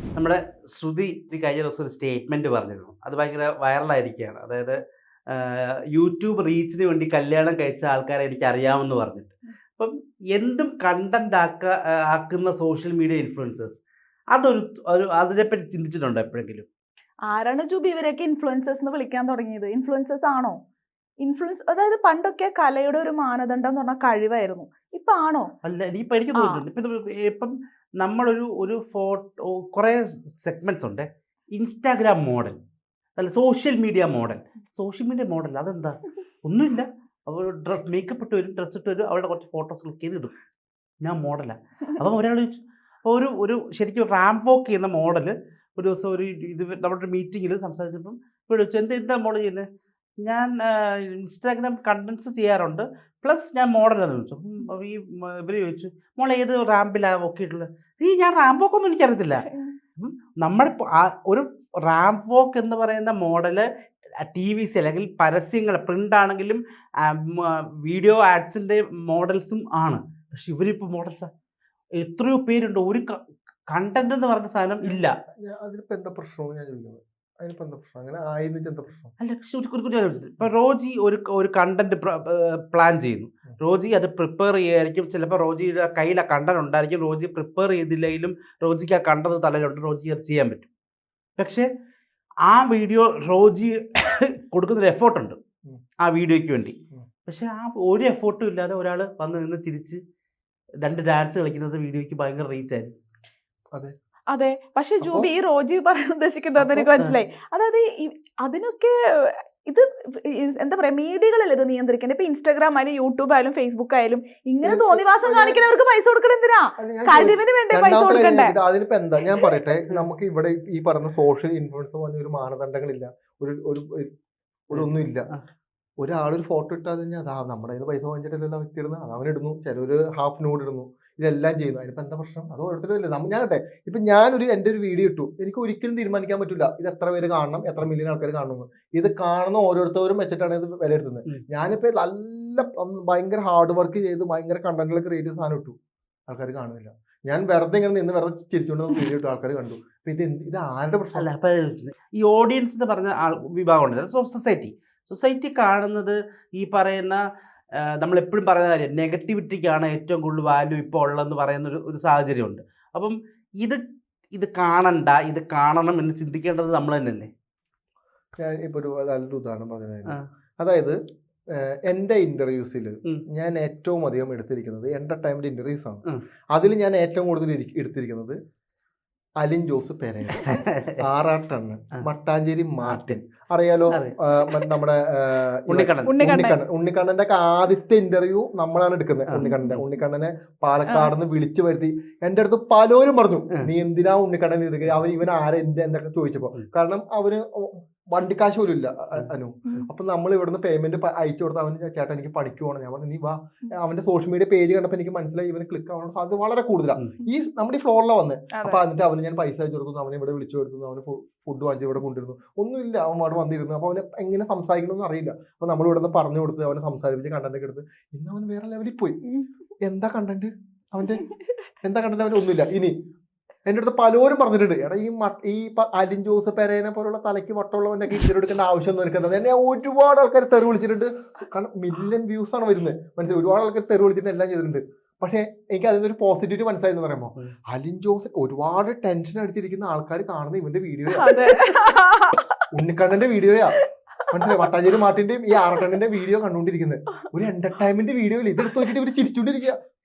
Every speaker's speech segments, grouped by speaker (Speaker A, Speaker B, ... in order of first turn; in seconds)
Speaker A: 0.1-4.8, 5.3-13.8, 14.3-16.6, 25.6-32.6, 33.2-40.3, 41.0-42.5, 43.0-49.6, 50.2-63.7, 64.2-71.3, 72.0-73.2, 73.7-75.1, 79.2-90.7, 91.4-91.7, 92.5-95.4, 96.0-96.7, 97.3-100.0, 100.8-102.9, 124.7-125.4, 151.2-157.2, 157.8-163.8, 164.3-167.3, 180.4-181.0, 182.8-183.2, 185.7-186.3, 189.3-189.8
Speaker B: 17.3-20.6, 21.2-25.5, 26.3-26.6, 59.5-59.7, 104.3-118.5, 186.0-186.6, 189.4-189.7, 208.5-208.8, 241.1-242.5, 243.8-244.7
Speaker C: 74.8-79.1, 105.0-105.3, 106.6-106.9, 114.6-115.6, 116.8-124.1, 124.7-125.3, 126.0-145.7, 146.3-151.3, 168.4-171.0, 171.5-176.0, 176.5-178.4, 179.4-219.2, 219.8-221.2, 221.8-222.9, 223.7-241.6, 242.7-243.8, 244.3-249.8